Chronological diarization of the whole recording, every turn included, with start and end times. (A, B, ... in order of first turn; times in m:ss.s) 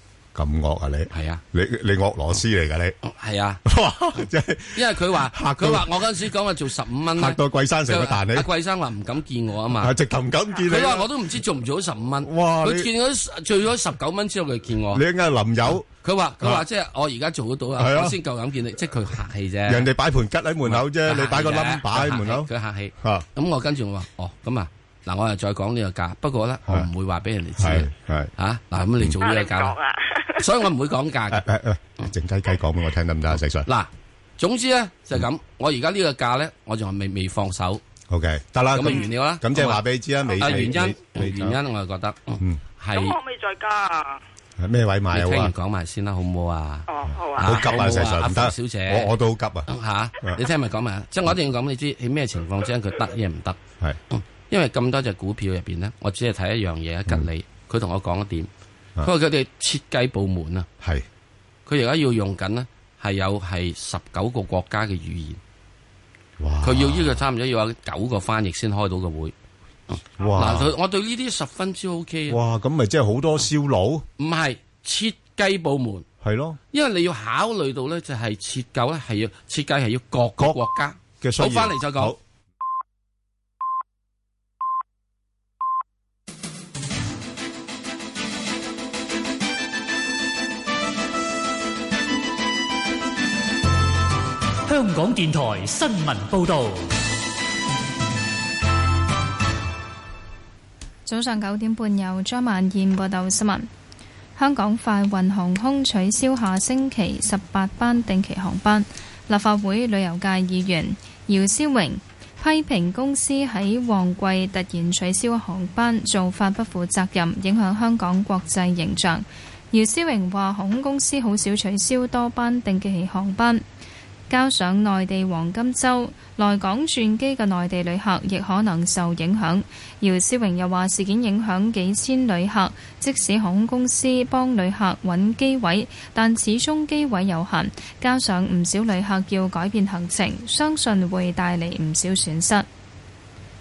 0:00.3-0:02.9 A
0:01.1-0:01.4 B
0:03.0-0:03.6 B
0:03.6-0:05.9 A
0:04.7-0:09.9 B
0:07.1-0:08.5 A
0:09.8-0:11.1 A
0:10.6-0:15.0 B
0:12.2-0:12.9 A
0:14.9-0:15.8 A
0:15.7-0:19.9 B
0:17.8-0:18.2 A
0:19.7-0:22.5 A
0:20.6-0:29.7 B
0:23.0-0:23.2 A
0:27.6-0:28.3 A
0:29.2-0:30.4 C
0:30.4-0:31.4 B
0:31.3-0:33.7 A
0:33.6-0:37.8 B
0:38.1-0:41.6 A
0:38.7-0:39.8 B
0:40.4-0:43.2 B
0:42.9-0:44.2 C
0:44.6-0:45.5 A
0:45.1-0:46.9 B
0:46.9-0:47.6 C
0:47.4-0:49.7 A
0:47.4-0:49.1 B
0:49.7-0:53.6 B
0:54.1-0:58.5 B
0:59.0-1:00.7 B
1:01.6-1:05.4 B
1:06.4-1:07.2 A
1:06.6-1:09.3 B
1:09.9-1:12.4 B
1:10.2-1:10.7 A
1:12.3-1:14.0 A
1:14.2-1:16.0 B
1:16.2-1:16.6 A
1:16.7-1:22.1 B
1:21.2-1:22.2 A
1:34.7-1:36.9 D
1:41.0-1:43.7 E
1:44.4-2:03.6 E
2:04.3-2:22.6 E